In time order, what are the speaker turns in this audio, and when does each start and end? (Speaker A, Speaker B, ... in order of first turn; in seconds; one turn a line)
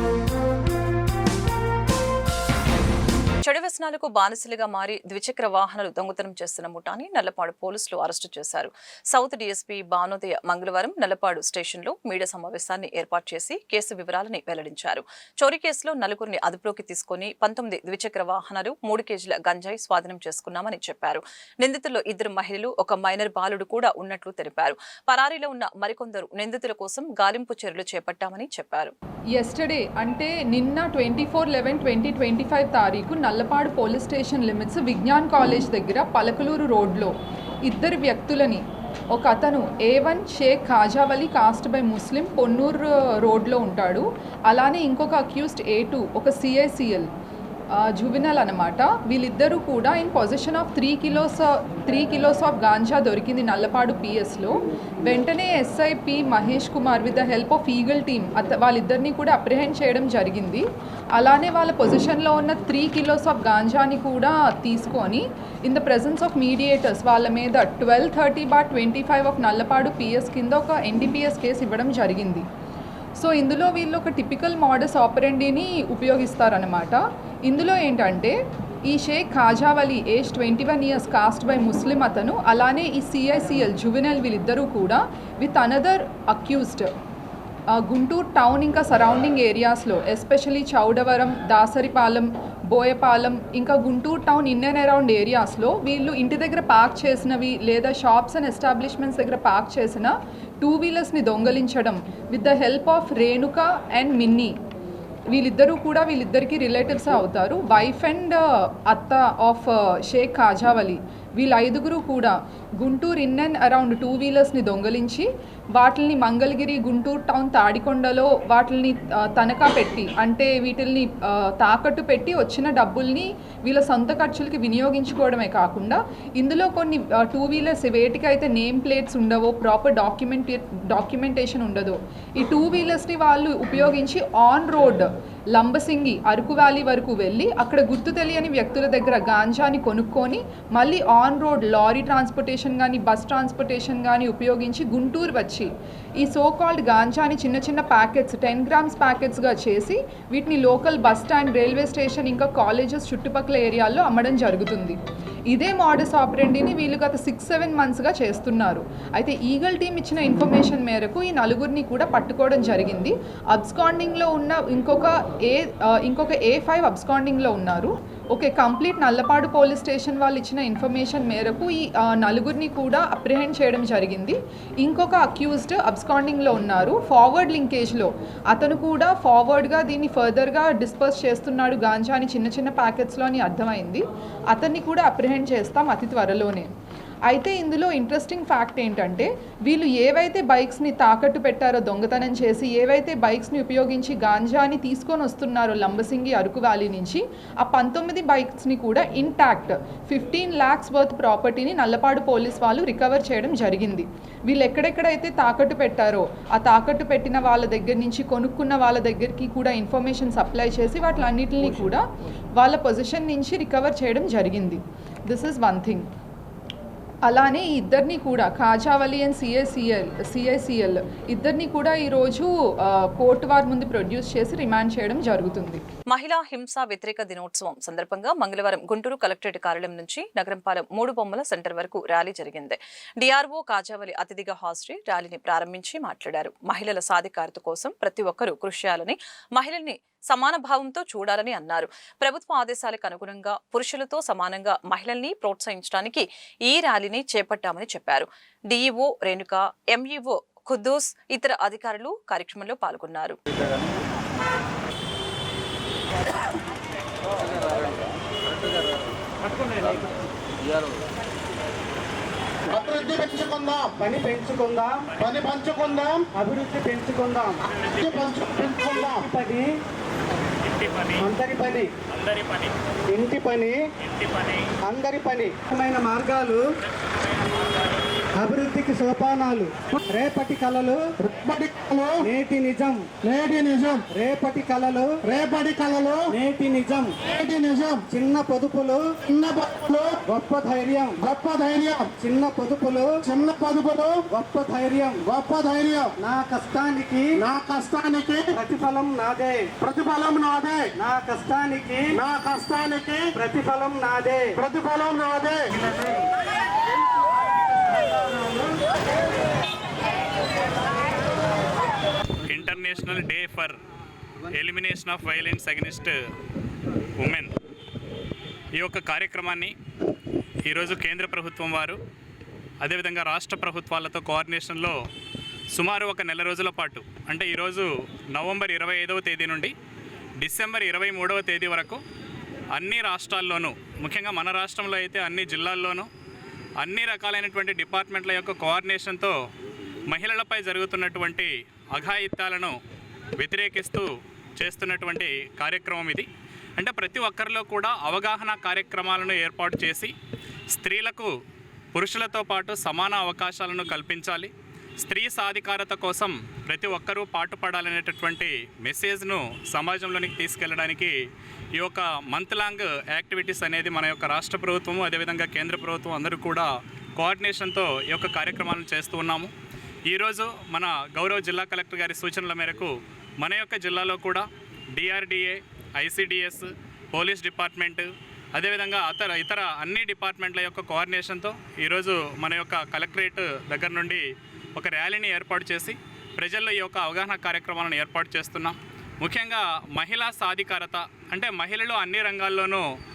Speaker A: 3.5-28.9
Speaker B: 29.3-37.1
Speaker B: 37.6-47.1
Speaker B: 47.7-72.5
Speaker B: 73.2-86.9
Speaker B: 87.7-104.6
Speaker B: 105.3-186.7
Speaker B: 187.3-212.0
Speaker B: 212.6-216.1
Speaker B: 217.2-225.8
Speaker A: 226.1-253.4
Speaker C: 262.7-264.0
Speaker D: 264.0-265.2
Speaker C: 265.2-266.3
Speaker D: 266.3-267.6
Speaker C: 268.0-269.3
Speaker D: 268.8-269.7
Speaker D: 271.2-271.9
Speaker D: 273.1-273.8
Speaker D: 274.8-276.6
Speaker D: 278.4-281.2
Speaker C: 281.2-282.3
Speaker D: 282.2-283.2
Speaker C: 283.2-284.1
Speaker D: 284.0-285.3
Speaker C: 285.2-286.4
Speaker D: 286.3-287.2
Speaker C: 287.2-288.1
Speaker D: 288.0-289.3
Speaker C: 289.3-290.2
Speaker D: 290.2-291.2
Speaker C: 291.2-292.1
Speaker D: 292.2-293.2
Speaker C: 293.2-294.3
Speaker D: 294.3-295.3
Speaker C: 295.2-296.1
Speaker D: 296.2-297.4
Speaker C: 297.4-298.6
Speaker D: 298.5-299.8
Speaker C: 299.8-300.9
Speaker D: 300.9-302.2
Speaker C: 302.1-303.4
Speaker D: 303.3-304.6
Speaker C: 304.6-305.6
Speaker E: 312.5-313.8
Speaker E: 314.5-316.2
Speaker E: 317.2-317.5
Speaker E: 318.8-319.7
Speaker E: 320.7-322.0
Speaker E: 322.8-325.0
Speaker E: 325.7-329.7
Speaker E: 330.4-332.0
Speaker E: 332.7-336.1
Speaker E: 336.8-339.3
Speaker E: 340.1-342.8
Speaker E: 343.4-350.1
Speaker E: 350.7-351.3
Speaker E: 351.9-361.1
Speaker E: 361.8-369.5
Speaker E: 370.1-384.2
Speaker E: 384.8-392.8